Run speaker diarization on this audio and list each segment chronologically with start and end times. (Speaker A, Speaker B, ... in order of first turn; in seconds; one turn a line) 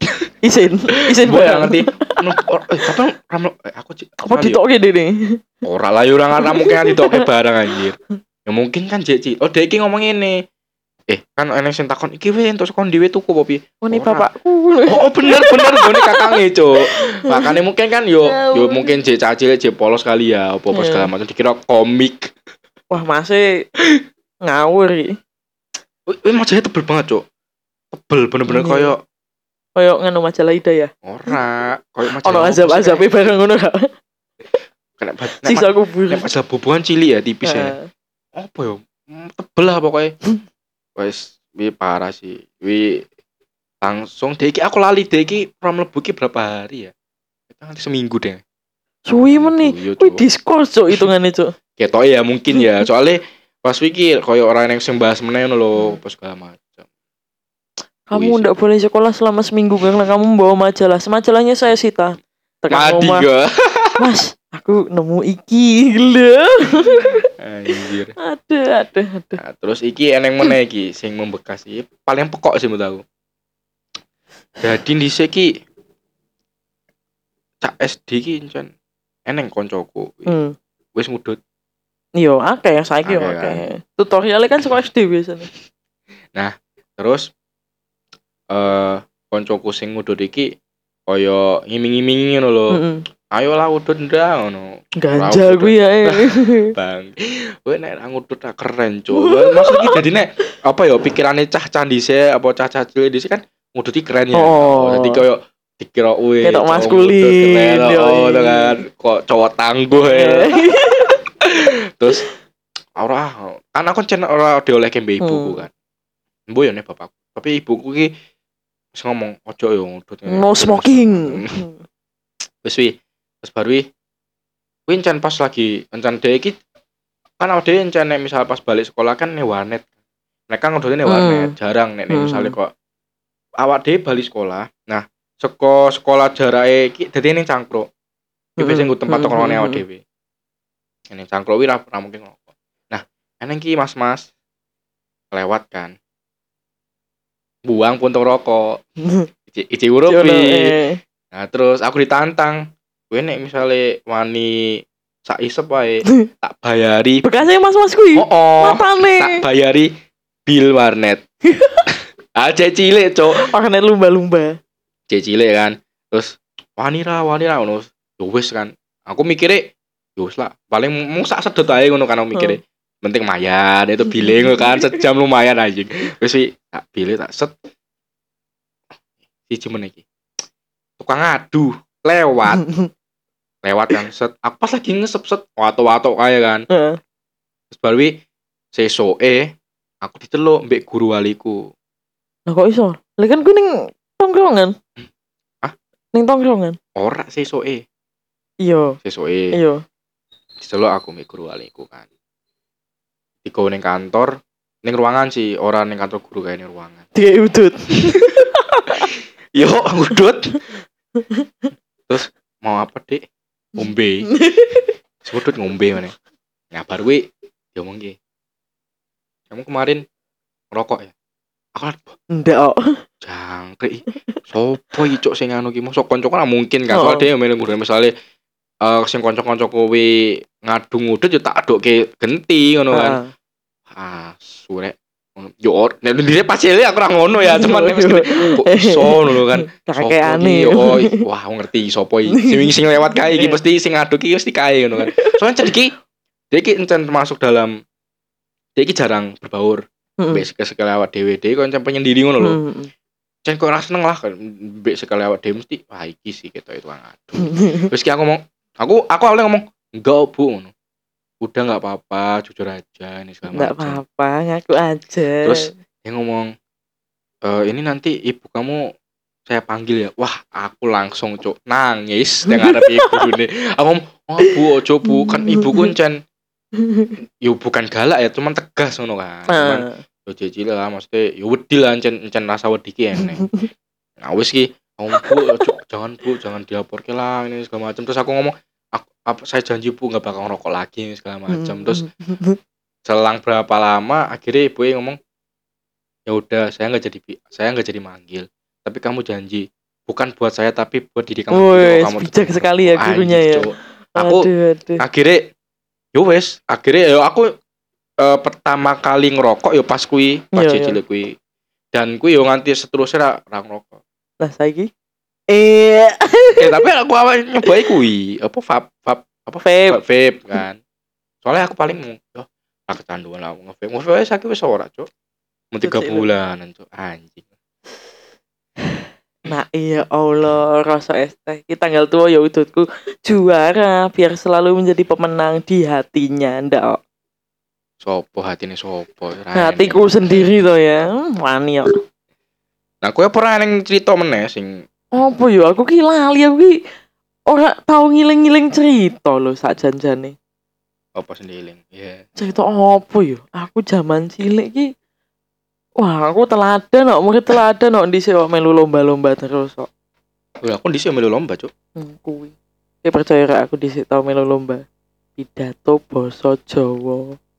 Speaker A: 0.4-2.2
Speaker B: 1.1-4.6
Speaker A: 4.2-5.4
Speaker B: 5.7-10.4
Speaker A: 6.4-7.3
Speaker B: 11.1-14.3
Speaker A: 13.8-17.6
Speaker B: 14.9-22.3
Speaker A: 18.2-19.0
Speaker A: 20.7-21.1
Speaker A: 22.9-23.6
Speaker A: 24.4-25.2
Speaker B: 26.1-27.2
Speaker B: 27.9-29.0
Speaker A: 28.5-28.9
Speaker A: 29.8-31.4
Speaker B: 31.0-33.1
Speaker A: 32.1-33.9
Speaker B: 35.0-37.8
Speaker A: 35.3-36.3
Speaker A: 37.4-37.9
Speaker B: 38.4-40.1
Speaker B: 41.0-43.0
Speaker B: 43.8-46.9
Speaker B: 47.5-48.4
Speaker A: 49.1-51.5
Speaker B: 49.3-50.2
Speaker B: 51.8-56.9
Speaker A: 58.1-63.3
Speaker B: 58.1-58.5
Speaker B: 62.7-64.0
Speaker A: 64.0-69.4
Speaker B: 67.4-68.1
Speaker B: 69.4-73.0
Speaker B: 74.6-75.6
Speaker B: 77.6-78.7
Speaker B: 79.3-80.3
Speaker A: 80.3-80.5
Speaker B: 81.0-81.4
Speaker A: 82.2-85.5
Speaker B: 83.0-83.7
Speaker B: 86.3-87.3
Speaker B: 88.5-90.5
Speaker B: 91.1-92.8
Speaker A: 92.7-93.0
Speaker B: 93.3-112.3
Speaker A: 95.0-96.7
Speaker A: 99.1-100.0
Speaker A: 104.3-105.2
Speaker A: 106.4-108.8
Speaker A: 109.9-111.2
Speaker B: 113.0-115.7
Speaker A: 115.2-115.6
Speaker B: 116.5-118.1
Speaker B: 118.9-121.7
Speaker A: 120.3-121.8
Speaker B: 122.6-123.9
Speaker B: 124.9-126.6
Speaker B: 127.4-129.9
Speaker B: 130.5-132.7
Speaker A: 131.1-131.5
Speaker A: 132.1-132.6
Speaker B: 133.6-137.9
Speaker B: 138.6-140.0
Speaker A: 138.6-139.8
Speaker B: 141.1-144.3
Speaker B: 145.3-146.0
Speaker B: 147.7-148.8
Speaker A: 149.0-149.3
Speaker B: 149.5-150.8
Speaker A: 150.1-151.0
Speaker B: 151.3-157.4
Speaker A: 157.2-159.4
Speaker B: 158.2-159.9
Speaker B: 160.5-161.2
Speaker A: 161.5-161.8
Speaker B: 162.4-163.5
Speaker A: 163.3-164.6
Speaker B: 165.1-177.5
Speaker A: 172.3-172.6
Speaker A: 174.1-175.0
Speaker B: 179.5-180.0
Speaker B: 181.0-182.7
Speaker A: 182.6-182.9
Speaker B: 183.6-186.7
Speaker A: 186.7-187.0
Speaker B: 187.7-188.2
Speaker B: 188.7-191.7
Speaker A: 192.5-194.8
Speaker A: 196.1-196.8
Speaker B: 197.0-197.8
Speaker A: 198.6-199.0
Speaker B: 199.0-199.6
Speaker A: 199.5-199.8
Speaker B: 200.6-202.1
Speaker B: 203.4-207.1
Speaker A: 207.2-209.1
Speaker B: 208.0-208.5
Speaker B: 209.6-210.6
Speaker A: 211.2-211.5
Speaker B: 212.1-213.2
Speaker B: 213.8-214.3
Speaker A: 214.3-214.9
Speaker B: 215.2-216.2
Speaker B: 216.7-218.2
Speaker B: 219.5-220.0
Speaker B: 220.7-221.1
Speaker B: 221.8-222.2
Speaker A: 222.3-223.0
Speaker B: 223.2-228.1
Speaker A: 226.9-227.3
Speaker B: 228.8-233.2
Speaker A: 232.9-233.3
Speaker B: 233.9-245.9
Speaker A: 237.4-241.2
Speaker A: 242.3-243.6
Speaker A: 245.0-245.7
Speaker B: 246.5-247.8
Speaker B: 248.8-252.6
Speaker A: 250.2-250.4
Speaker A: 252.4-252.9
Speaker B: 253.4-260.7
Speaker A: 257.4-257.9
Speaker B: 261.4-264.0
Speaker A: 263.5-265.7
Speaker B: 265.4-266.5
Speaker B: 267.4-268.9
Speaker B: 269.5-276.2
Speaker A: 272.5-273.3
Speaker A: 275.1-275.9
Speaker A: 276.8-277.1
Speaker B: 277.4-283.5
Speaker A: 279.5-280.0
Speaker A: 283.2-283.7
Speaker B: 284.2-292.0
Speaker A: 285.1-285.7
Speaker A: 291.5-292.6
Speaker B: 293.1-295.2
Speaker B: 296.3-305.5
Speaker A: 301.5-305.0
Speaker B: 306.1-307.5
Speaker B: 308.2-311.4
Speaker A: 310.5-311.0
Speaker B: 311.9-314.0
Speaker A: 314.4-314.9
Speaker A: 315.5-316.8
Speaker B: 316.6-320.8
Speaker A: 319.6-320.0
Speaker B: 321.4-325.1
Speaker B: 325.7-327.4
Speaker A: 325.8-326.3
Speaker A: 328.9-337.0
Speaker B: 338.0-340.1
Speaker A: 339.5-342.0
Speaker B: 343.0-344.8
Speaker A: 345.1-346.8
Speaker A: 347.5-350.4
Speaker B: 351.1-352.2
Speaker A: 352.4-354.9
Speaker A: 356.0-359.9
Speaker B: 360.6-361.7
Speaker A: 362.0-364.9
Speaker A: 365.4-367.4